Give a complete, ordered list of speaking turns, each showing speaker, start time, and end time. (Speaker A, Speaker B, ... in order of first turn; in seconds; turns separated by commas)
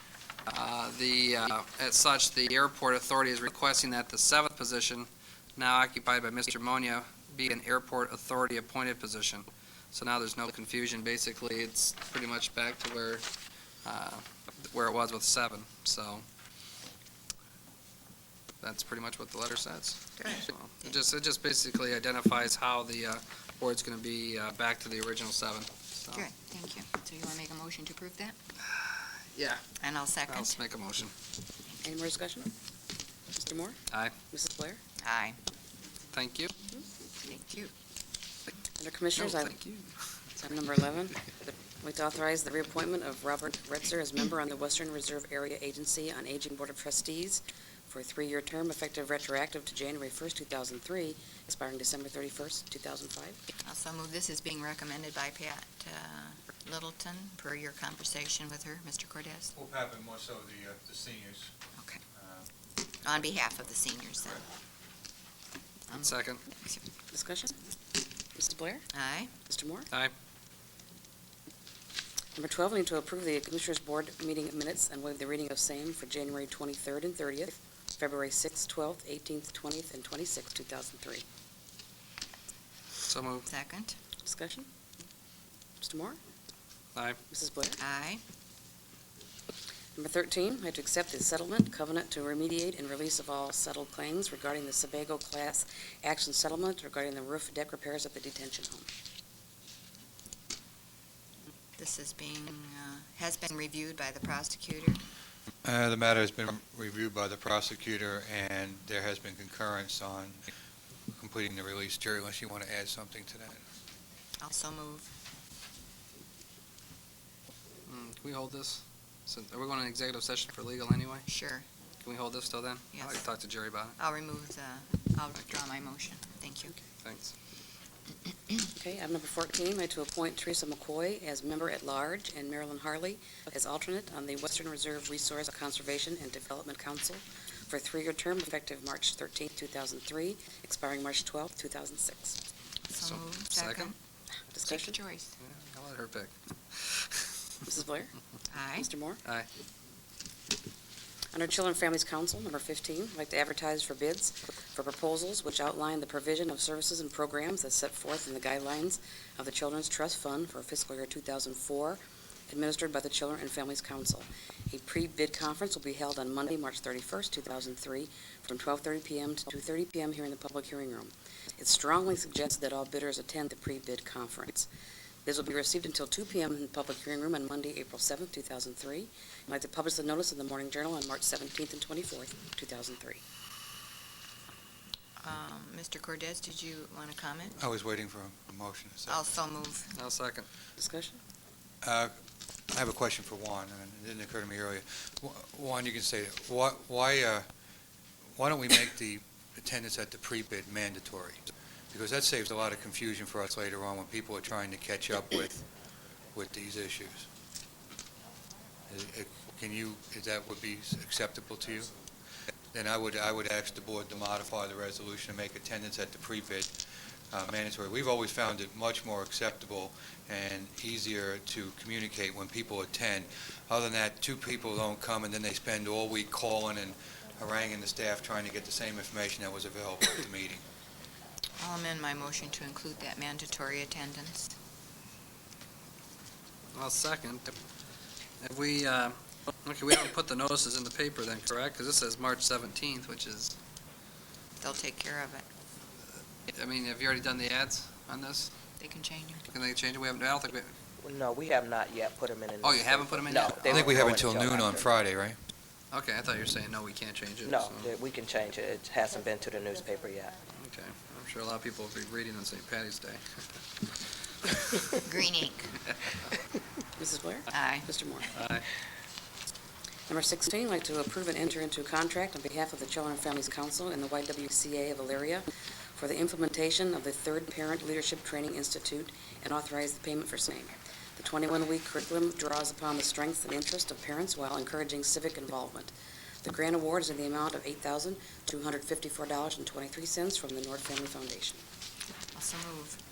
Speaker A: 0.5-13.3, Speaker A: 13.8-16.2, Speaker A: 18.6-26.2, Speaker B: 20.2-21.0, Speaker B: 26.1-28.4, Speaker A: 28.7-29.7, Speaker B: 29.8-30.6, Speaker A: 30.3-31.1, Speaker C: 31.8-32.5, Speaker C: 33.3-34.8, Speaker B: 35.0-35.4, Speaker A: 36.1-36.5, Speaker B: 37.2-37.7, Speaker C: 38.8-39.6, Speaker A: 39.2-40.0, Speaker C: 40.4-53.4, Speaker B: 53.6-59.5, Speaker D: 59.5-61.5, Speaker D: 62.1-62.5, Speaker B: 63.0-64.4, Speaker B: 65.9-66.8, Speaker A: 66.0-66.4, Speaker C: 67.1-67.6, Speaker C: 68.3-68.9, Speaker B: 68.9-69.3, Speaker C: 69.4-69.9, Speaker C: 72.4-81.2, Speaker A: 83.0-83.5, Speaker B: 83.5-84.0, Speaker C: 84.2-84.7, Speaker C: 85.8-86.2, Speaker C: 87.3-87.8, Speaker B: 87.8-88.2, Speaker C: 90.0-98.9, Speaker B: 101.8-105.0, Speaker D: 105.6-110.5, Speaker D: 111.1-113.6, Speaker B: 114.4-115.1, Speaker A: 117.9-121.3, Speaker B: 121.3-121.7, Speaker A: 122.0-124.0, Speaker B: 122.9-123.2, Speaker B: 124.0-126.7, Speaker A: 127.0-127.3, Speaker C: 128.7-142.4, Speaker B: 142.9-144.0, Speaker A: 143.0-143.9, Speaker C: 144.5-145.0, Speaker B: 144.6-145.4, Speaker A: 145.4-147.2, Speaker C: 147.7-148.1, Speaker B: 148.5-148.9, Speaker C: 148.8-149.2, Speaker C: 151.3-174.7, Speaker C: 175.2-183.2, Speaker B: 185.2-187.6, Speaker D: 187.6-189.2, Speaker B: 189.1-189.9, Speaker A: 189.9-190.5, Speaker C: 190.8-191.2, Speaker D: 191.8-192.1, Speaker D: 192.7-197.5, Speaker D: 198.4-205.7, Speaker D: 206.3-207.3, Speaker D: 208.9-212.0, Speaker D: 212.7-216.8, Speaker D: 217.3-230.7, Speaker B: 231.6-234.6, Speaker A: 236.7-237.6, Speaker A: 238.4-243.6, Speaker B: 244.6-245.4, Speaker A: 246.5-248.5, Speaker B: 248.8-249.4, Speaker A: 249.5-250.7, Speaker E: 251.0-254.9, Speaker A: 252.6-254.0, Speaker D: 253.7-255.4, Speaker A: 255.9-257.9, Speaker E: 257.4-260.4, Speaker A: 260.6-263.4, Speaker B: 265.0-265.8, Speaker C: 267.0-268.3, Speaker B: 267.5-267.9, Speaker A: 268.3-268.7, Speaker C: 270.1-285.9, Speaker C: 286.4-291.6, Speaker B: 292.3-293.0